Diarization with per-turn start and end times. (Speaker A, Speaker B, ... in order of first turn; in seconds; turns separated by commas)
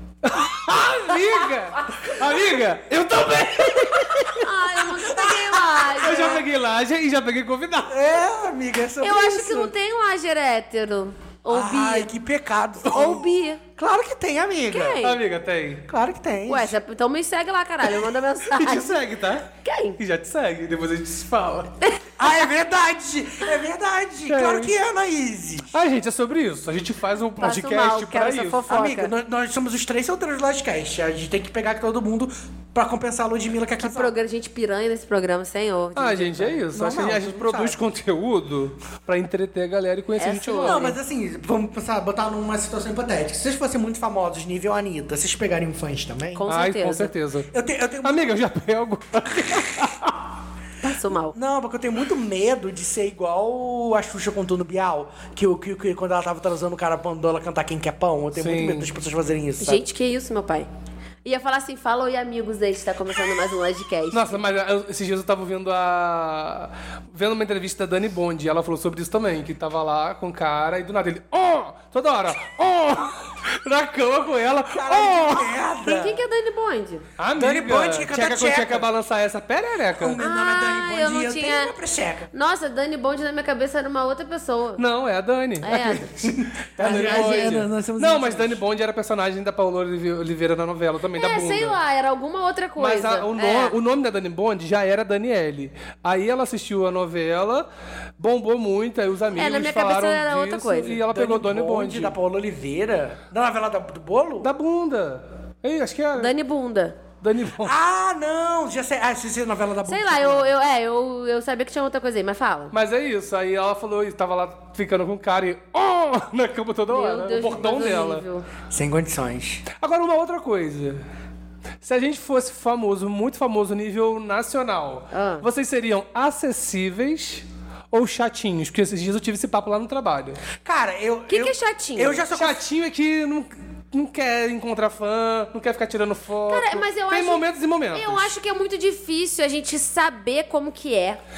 Speaker A: 0.2-4.5, Speaker B: 1.1-2.2, Speaker B: 4.3-6.4, Speaker A: 5.9-8.0, Speaker C: 6.0-6.4, Speaker C: 7.9-9.7, Speaker B: 9.0-12.1, Speaker C: 11.5-15.0, Speaker B: 12.8-13.6, Speaker B: 14.7-15.2, Speaker A: 15.0-15.8, Speaker C: 15.9-16.8, Speaker B: 16.5-18.9, Speaker A: 18.5-21.7, Speaker B: 19.6-20.0, Speaker B: 21.8-22.3, Speaker C: 22.2-25.7, Speaker A: 24.3-24.7, Speaker A: 25.7-28.7, Speaker B: 27.4-29.1, Speaker C: 28.7-34.1, Speaker B: 33.8-36.6, Speaker A: 36.0-40.9, Speaker C: 36.7-37.8, Speaker B: 40.2-41.0, Speaker C: 40.6-46.5, Speaker B: 46.3-47.1, Speaker A: 46.5-47.5, Speaker C: 47.5-48.4, Speaker A: 48.0-50.1, Speaker B: 50.8-51.4, Speaker C: 51.3-59.8, Speaker A: 58.4-58.9, Speaker B: 59.6-60.7, Speaker B: 61.2-64.4, Speaker A: 64.1-75.6, Speaker C: 74.7-76.2, Speaker B: 75.8-77.0, Speaker A: 77.2-80.2, Speaker C: 77.4-78.9, Speaker C: 80.0-82.3, Speaker B: 80.2-81.7, Speaker B: 82.3-84.8, Speaker A: 84.8-91.8, Speaker B: 85.6-86.1, Speaker C: 86.2-88.6, Speaker B: 86.8-87.6, Speaker B: 91.2-93.8, Speaker A: 92.8-97.7, Speaker A: 98.2-102.1, Speaker B: 99.4-101.0, Speaker C: 101.1-104.5, Speaker A: 104.4-106.3, Speaker B: 106.2-107.0, Speaker A: 107.2-107.8, Speaker C: 107.6-110.5, Speaker B: 109.9-112.7, Speaker A: 112.7-118.2, Speaker B: 116.9-118.5, Speaker C: 118.7-119.6, Speaker A: 119.7-121.0, Speaker A: 121.8-130.4, Speaker B: 125.1-125.5, Speaker C: 130.6-132.6, Speaker B: 131.3-132.2, Speaker A: 132.3-138.3, Speaker B: 136.5-137.4, Speaker B: 137.9-141.2